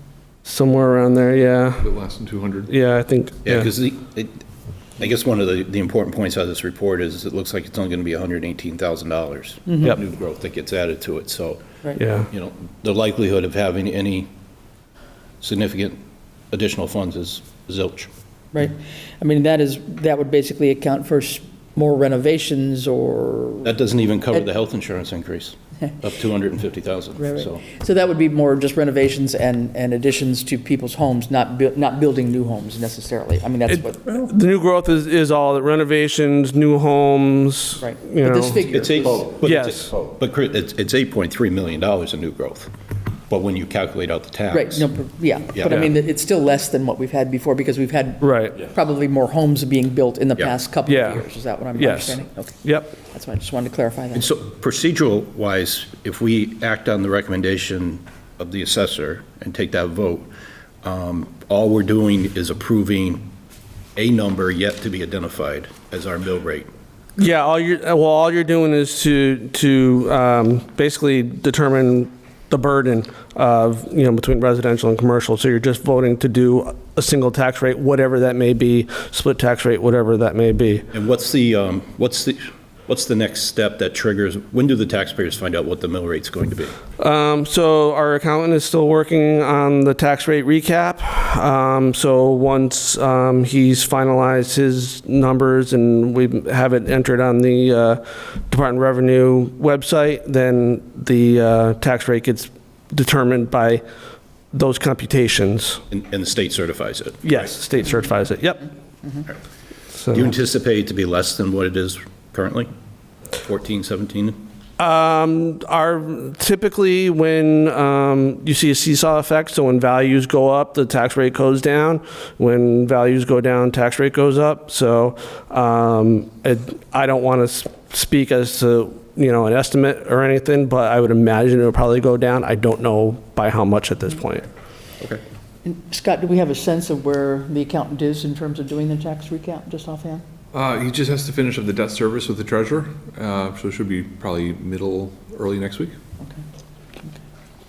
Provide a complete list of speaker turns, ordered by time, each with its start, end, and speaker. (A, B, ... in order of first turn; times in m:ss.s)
0:00.4-0:01.8 A
0:01.8-0:02.7 B
0:02.7-0:03.7 A
0:03.4-0:04.4 C
0:05.0-0:11.6 C
0:09.7-0:10.0 D
0:12.0-0:12.3 A
0:12.3-0:14.3 C
0:15.4-0:16.0 C
0:16.5-0:18.1 C
0:18.5-0:23.7 D
0:23.6-0:27.6 C
0:27.2-0:34.3 D
0:33.7-0:38.7 A
0:37.8-0:39.3 D
0:38.7-0:42.7 C
0:39.4-0:39.9 A
0:43.3-0:44.8 C
0:44.5-0:54.3 D
0:45.5-0:45.8 C
0:48.2-0:48.6 A
0:50.9-0:51.2 A
0:51.8-0:53.0 A
0:54.2-1:00.3 C
1:00.8-1:03.3 C
1:04.0-1:06.7 C
1:07.2-1:20.9 A
1:20.9-1:26.8 C
1:27.0-1:43.8 A
1:44.5-1:45.8 A
1:45.9-1:47.6 C
1:47.2-1:48.7 A
1:50.0-1:50.3 A
1:50.1-1:52.7 C
1:53.4-1:54.4 C
1:54.8-2:14.5 A
2:15.6-2:20.2 D
2:20.5-2:26.0 B